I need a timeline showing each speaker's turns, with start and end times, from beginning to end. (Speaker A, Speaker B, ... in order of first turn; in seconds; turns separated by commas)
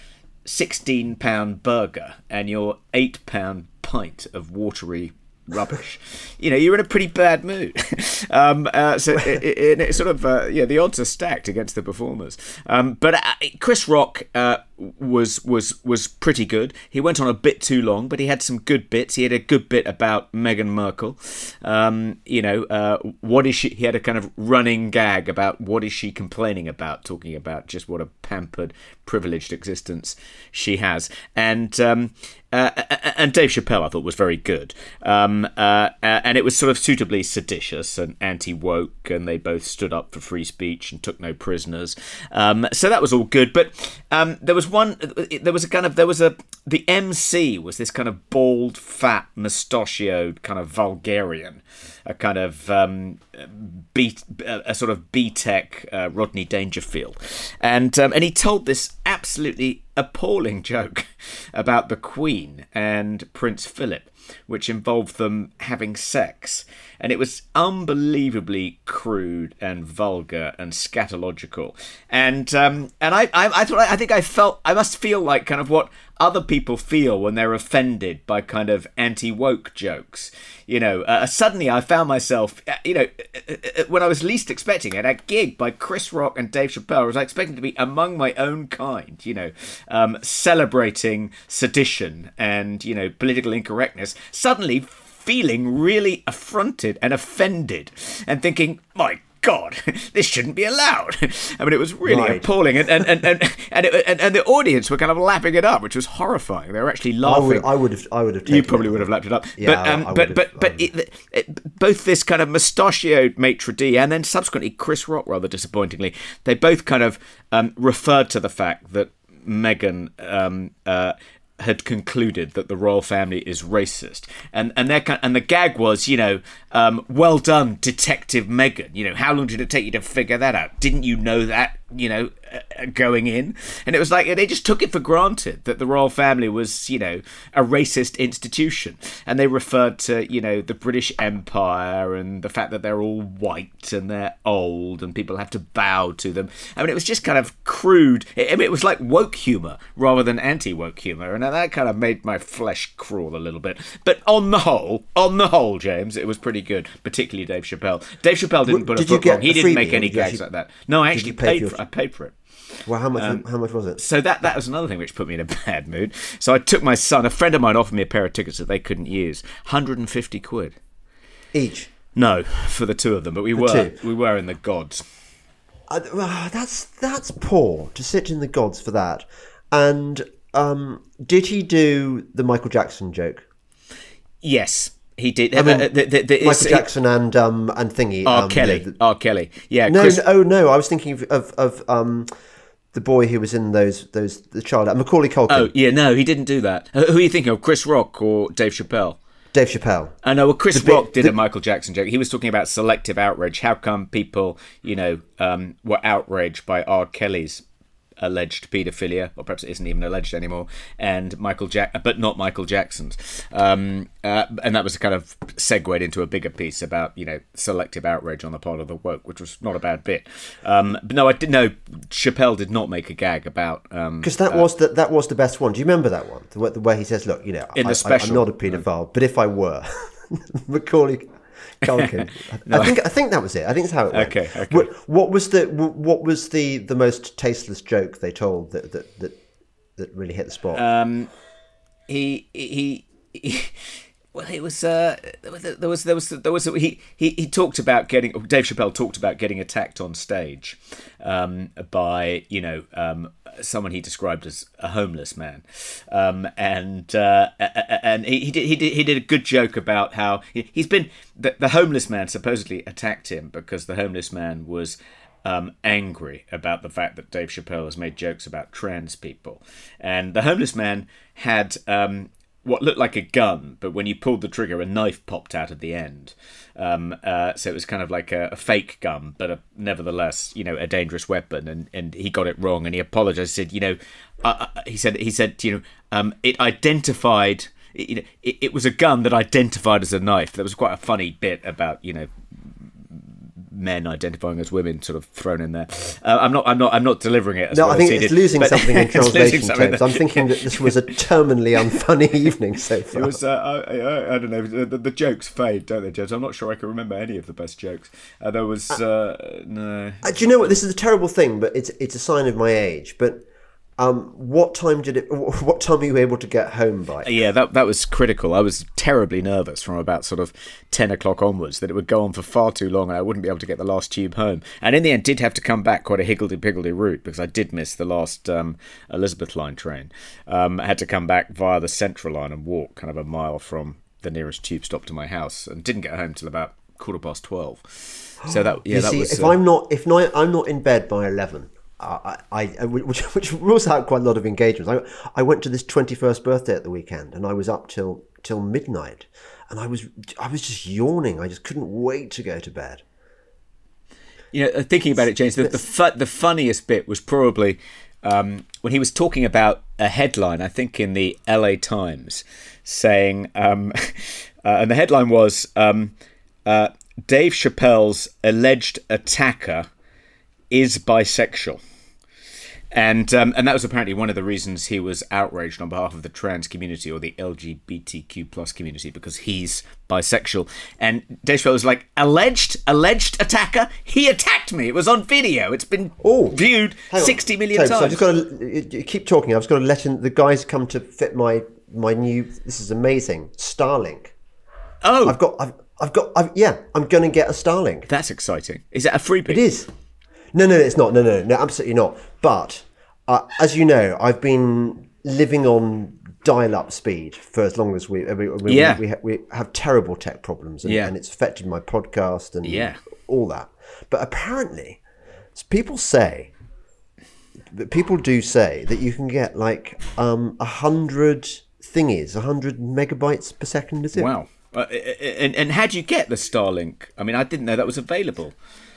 Speaker A: 0.4-107.7, Speaker B: 102.0-102.5, Speaker B: 107.2-110.9, Speaker A: 108.5-162.3, Speaker B: 158.7-160.4, Speaker B: 161.1-161.8, Speaker B: 162.8-164.0, Speaker A: 163.2-163.4, Speaker A: 164.0-170.8, Speaker B: 171.5-171.9, Speaker A: 172.1-175.1, Speaker B: 173.6-173.9, Speaker B: 175.9-183.4, Speaker A: 184.4-186.9, Speaker B: 185.5-188.9, Speaker A: 188.2-190.2, Speaker B: 189.9-192.3, Speaker B: 192.9-195.7, Speaker A: 195.5-199.2, Speaker B: 199.5-200.2, Speaker A: 200.2-207.6, Speaker B: 200.7-201.3, Speaker A: 208.2-224.7, Speaker B: 224.2-239.4, Speaker A: 227.7-228.8, Speaker A: 231.9-233.0, Speaker A: 234.1-234.9, Speaker B: 240.0-240.8, Speaker A: 240.7-241.3, Speaker A: 242.1-292.3, Speaker A: 293.1-301.0, Speaker B: 297.7-303.3, Speaker A: 303.1-310.8, Speaker B: 310.2-313.4, Speaker B: 314.0-317.3, Speaker A: 317.2-339.6, Speaker B: 338.4-353.0, Speaker A: 354.5-366.1, Speaker A: 366.6-369.9, Speaker A: 370.7-371.8, Speaker A: 372.9-388.2, Speaker B: 386.2-386.6, Speaker B: 387.1-394.3, Speaker A: 395.0-395.4, Speaker B: 395.2-398.1, Speaker A: 398.1-399.6, Speaker B: 399.5-399.9, Speaker B: 400.5-415.0, Speaker A: 408.6-409.0, Speaker A: 410.8-411.1, Speaker A: 412.6-413.0, Speaker B: 415.5-416.5, Speaker B: 417.7-424.3, Speaker A: 424.1-428.5